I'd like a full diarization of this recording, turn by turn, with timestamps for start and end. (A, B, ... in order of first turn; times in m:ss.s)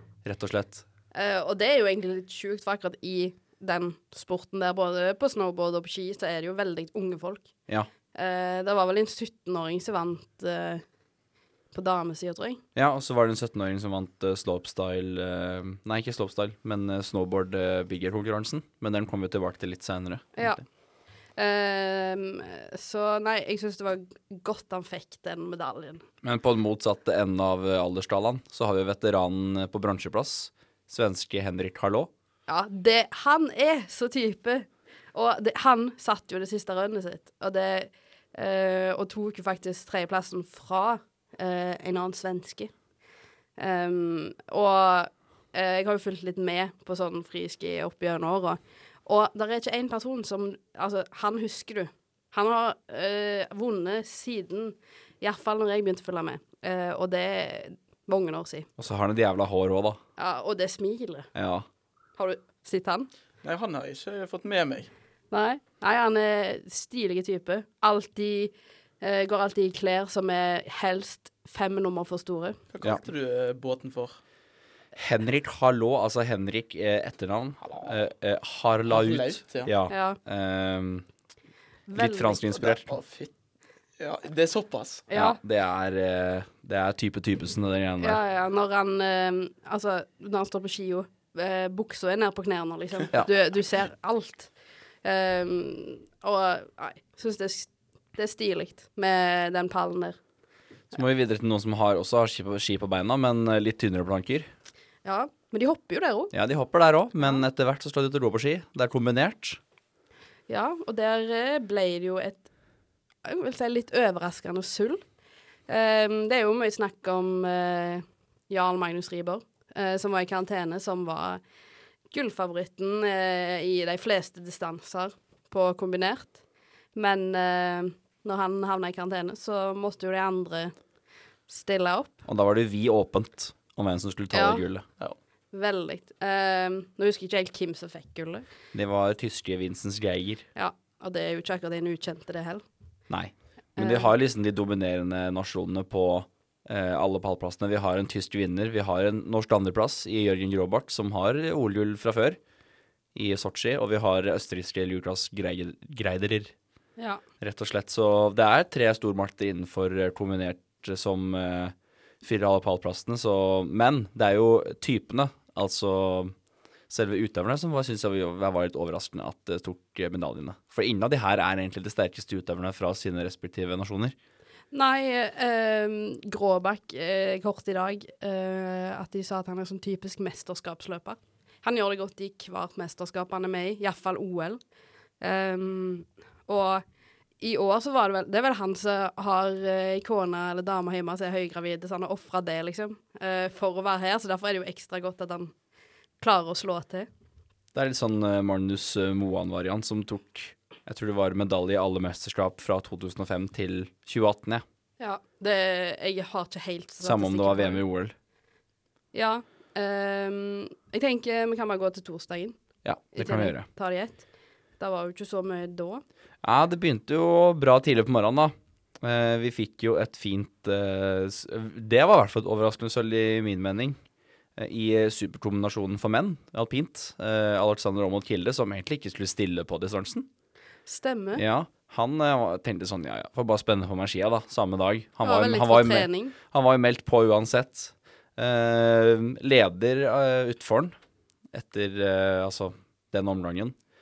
0:00.2-0:00.8 A
0:01.1-0:07.5 B
0:08.1-0:10.8 B
0:11.7-0:12.6 B
0:12.7-0:20.6 A
0:20.4-0:20.6 B
0:21.4-0:26.0 B
0:26.2-0:32.1 A
0:32.5-0:42.7 B
0:43.6-0:58.7 B
0:58.8-1:00.0 A
1:00.2-1:01.3 B
1:01.3-1:01.6 A
1:02.2-1:03.1 B
1:03.4-1:04.9 C
1:05.3-1:12.6 B
1:12.7-1:14.2 C
1:15.0-1:21.1 A
1:17.6-1:17.9 C
1:18.9-1:19.7 C
1:19.9-1:20.2 B
1:21.9-1:22.4 B
1:21.9-1:22.9 A
1:22.5-1:23.3 C
1:24.0-1:25.0 C
1:25.1-1:25.4 B
1:25.1-1:28.2 A
1:28.0-1:34.5 B
1:35.0-1:40.2 B
1:40.9-1:44.5 A
1:45.0-1:46.3 B
1:46.3-1:49.6 A
1:50.5-1:52.5 B
1:53.2-1:55.0 B
1:55.7-2:01.4 B
2:02.1-2:06.4 B
2:06.9-2:10.7 B
2:11.5-2:12.2 B
2:12.2-2:14.8 A
2:14.3-2:14.6 B
2:15.5-2:18.4 B
2:18.7-2:20.4 A
2:20.5-2:22.6 B
2:23.1-2:32.4 A
2:23.8-2:24.1 B
2:33.1-2:36.5 A
2:37.4-2:46.3 A
2:46.9-2:54.2 A
2:54.7-3:04.6 B
3:05.2-3:06.8 B
3:07.4-3:15.5 B
3:16.2-3:17.1 B
3:17.7-3:24.6 A
3:25.0-3:27.8 B
3:27.0-3:28.1 A
3:29.1-3:32.6 B
3:32.8-3:33.6 A
3:33.1-3:34.2 B
3:34.8-3:36.0 B
3:36.4-3:44.0 A
3:44.6-3:50.3 A
3:50.9-3:51.4 B
3:51.4-4:01.0 A
3:55.2-3:56.3 B
4:01.5-4:03.7 A